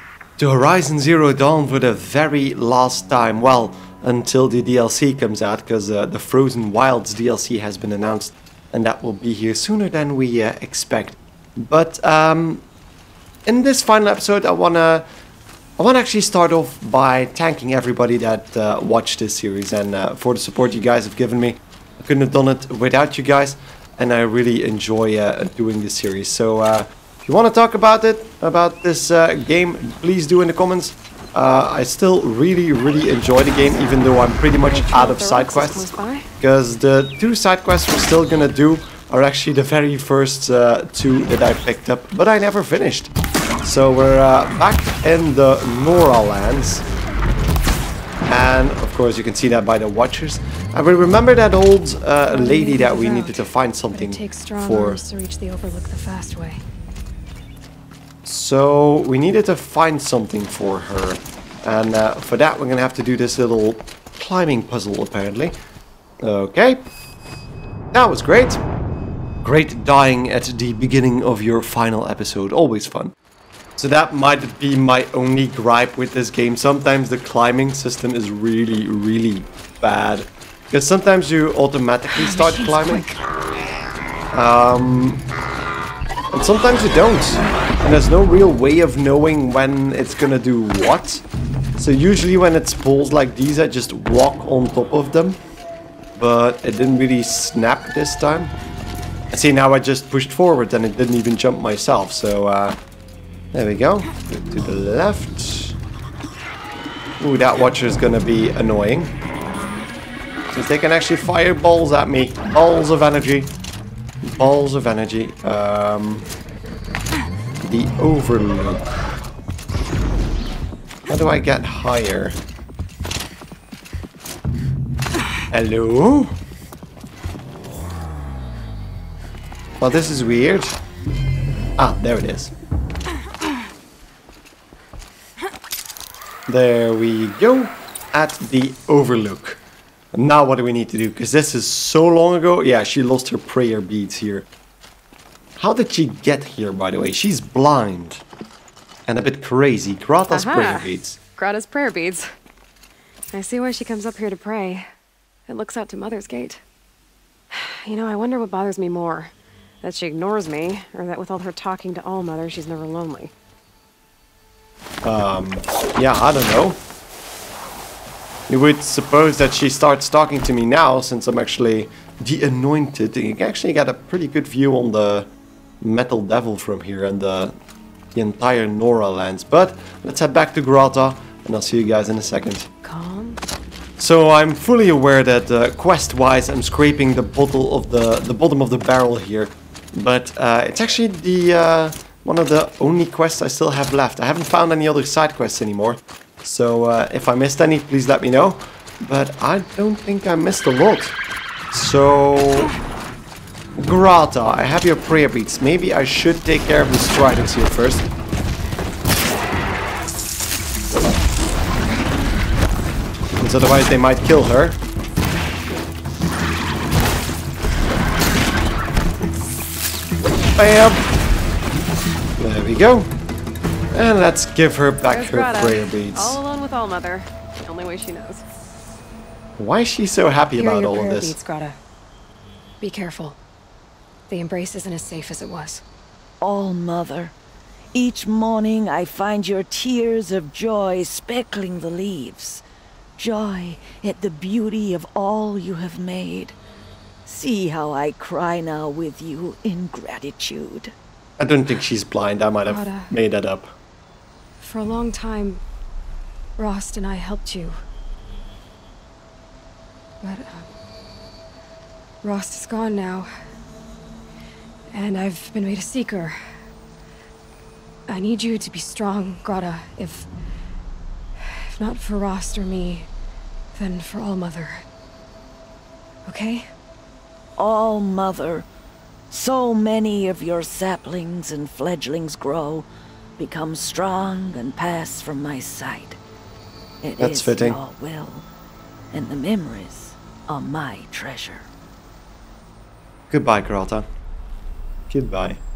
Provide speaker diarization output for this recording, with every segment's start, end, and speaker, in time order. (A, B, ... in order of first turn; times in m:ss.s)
0:00.4-0:12.6 A
0:13.4-0:15.0 A
0:15.8-0:43.1 A
0:34.6-0:36.3 B
0:43.6-0:46.8 A
0:48.3-0:55.0 A
0:52.3-0:56.6 B
0:58.2-1:05.6 A
1:06.2-1:06.8 A
1:07.9-1:08.6 A
1:09.4-1:13.1 A
1:13.8-1:23.1 A
1:22.1-1:23.1 C
1:24.3-1:25.2 A
1:26.3-1:31.2 A
1:31.8-1:35.4 A
1:36.2-1:38.5 A
1:39.3-1:42.8 A
1:43.5-1:45.8 A
1:47.2-1:49.1 A
1:50.5-1:53.5 A
1:54.2-1:56.3 A
1:57.6-1:58.8 A
2:01.1-2:02.4 A
2:05.5-2:06.3 A
2:09.8-2:10.8 A
2:11.8-2:12.5 A
2:16.5-2:19.6 A
2:20.1-2:24.5 A
2:25.6-2:28.2 A
2:29.1-2:31.2 A
2:30.3-2:32.3 B
2:33.3-2:34.9 B
2:35.5-2:36.6 B
2:37.5-2:43.3 B
2:45.0-2:46.8 A
2:48.5-2:55.3 A
2:55.8-2:57.5 A
2:58.1-3:02.7 A
3:02.8-3:03.4 B
3:04.0-3:21.2 A
3:21.7-3:22.7 A
3:23.8-3:28.1 A
3:33.4-3:34.8 A
3:40.6-3:41.0 A
3:42.4-3:43.1 A
3:43.9-3:46.4 A
3:45.1-3:48.4 B
3:49.6-3:51.4 A
3:50.5-3:51.8 B
3:52.8-3:53.4 B
3:54.3-3:55.8 B
3:56.4-3:57.3 C
3:57.9-4:02.6 C
4:03.2-4:06.5 C
4:07.2-4:10.9 C
4:11.4-4:13.7 A
4:12.6-4:13.1 B
4:14.6-4:15.6 B
4:16.6-4:17.8 B
4:20.2-4:20.7 B
4:22.2-4:23.3 B
4:24.9-4:26.4 B
4:28.1-4:30.3 B
4:31.4-4:33.1 B
4:33.7-4:34.8 B
4:36.2-4:36.6 B
4:37.6-4:38.6 C
4:39.3-4:42.9 C
4:43.4-4:46.2 C
4:47.0-4:48.5 C
4:47.2-4:47.8 A
4:49.1-4:51.6 C
4:53.3-4:54.0 A
4:55.1-4:55.6 A